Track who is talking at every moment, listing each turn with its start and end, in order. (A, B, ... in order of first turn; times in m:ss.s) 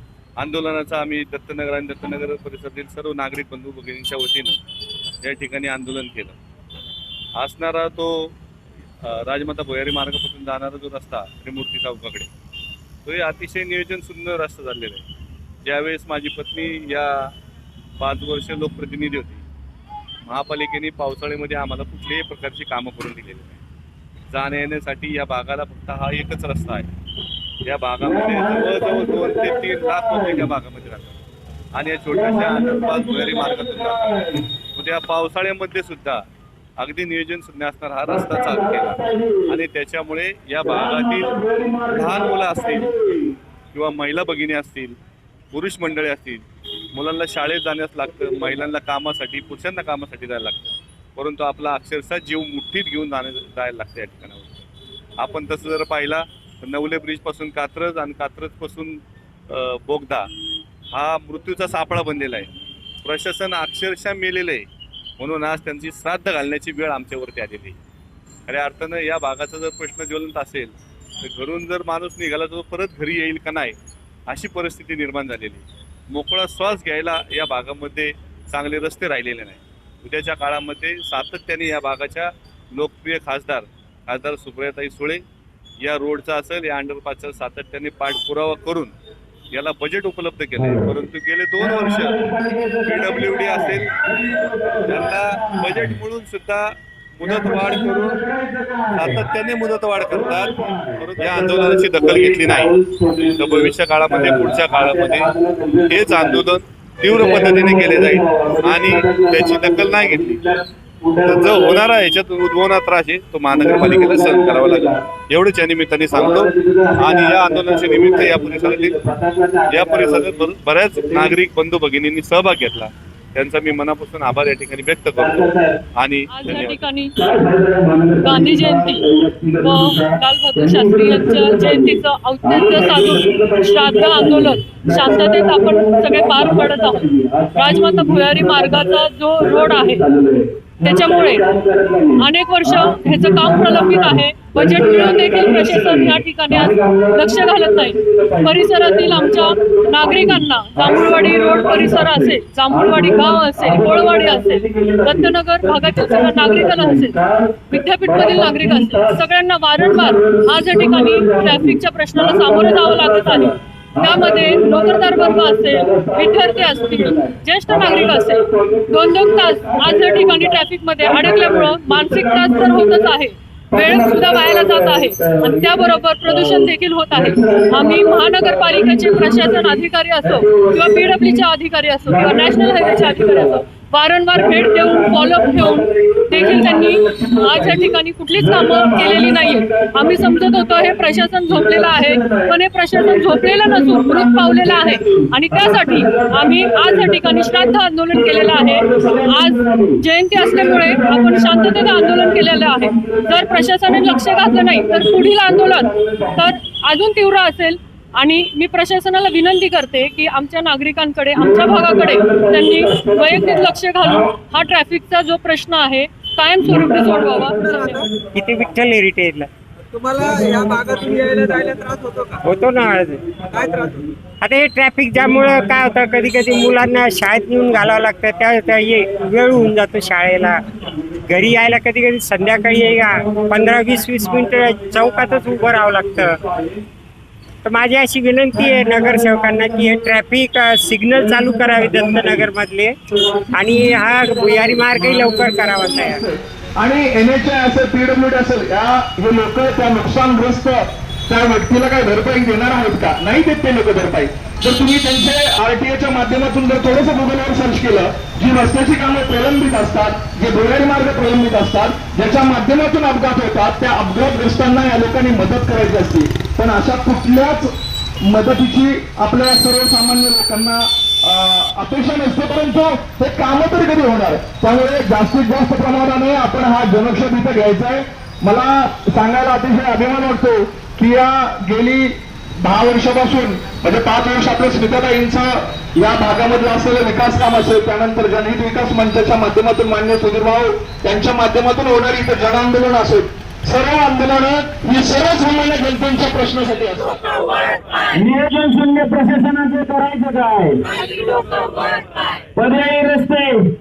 0:00.4-0:04.6 A
0:05.2-0:06.4 A
0:07.4-0:08.3 A
0:09.0-0:12.3 A
0:13.0-0:15.0 A
0:15.6-0:17.3 A
0:18.0-0:19.4 A
0:20.2-0:23.6 A
0:24.3-0:26.9 A
0:27.6-0:31.2 A
0:28.0-0:30.5 B
0:31.7-0:34.2 A
0:32.1-0:34.4 B
0:34.8-0:36.2 A
0:36.8-0:41.4 A
0:38.0-0:39.6 B
0:40.6-0:43.4 B
0:41.9-0:42.9 A
0:43.7-0:45.0 A
0:45.5-0:54.7 A
0:48.1-0:48.6 B
0:55.2-1:00.3 A
1:00.9-1:02.5 A
1:03.0-1:04.7 A
1:05.2-1:07.8 A
1:08.5-1:13.8 A
1:14.3-1:25.2 A
1:25.8-1:28.9 A
1:29.5-1:32.2 A
1:30.6-1:31.0 B
1:31.8-1:34.8 C
1:32.8-1:34.0 A
1:34.1-1:35.0 B
1:34.8-1:38.2 A
1:37.3-1:37.9 B
1:38.0-1:39.2 C
1:39.0-1:45.3 A
1:40.2-1:41.7 B
1:40.5-1:40.8 C
1:41.2-1:46.5 D
1:42.6-1:43.0 B
1:45.2-1:46.3 B
1:45.9-1:50.4 A
1:47.0-1:51.8 D
1:47.2-1:49.1 B
1:51.2-1:59.0 A
1:53.5-1:54.9 D
1:56.1-2:01.4 D
1:59.7-2:06.9 A
2:05.2-2:05.8 D
2:06.3-2:07.2 E
2:07.2-2:39.2 B
2:08.2-2:09.0 E
2:09.6-2:17.0 E
2:17.6-2:20.0 E
2:20.8-2:21.5 E
2:22.2-3:38.0 E
2:39.8-2:53.2 B
2:53.7-3:01.5 B
3:02.1-3:03.6 B
3:04.3-3:26.6 B
3:31.4-3:34.4 B
3:36.6-3:38.7 B
3:37.5-3:38.1 D
3:38.3-3:39.5 C
3:39.9-3:42.4 D
3:40.2-3:42.0 B
3:42.4-3:43.3 C
3:43.2-3:44.1 B
3:43.5-3:44.0 D
3:44.4-3:50.6 C
3:45.1-3:51.6 B
3:51.3-3:56.4 C
3:52.4-3:56.8 B
3:57.6-4:03.0 C
3:58.5-4:00.1 B
4:01.1-4:02.5 B
4:03.1-4:27.7 B
4:03.5-4:06.2 C
4:28.2-4:57.3 B
4:58.1-5:03.7 C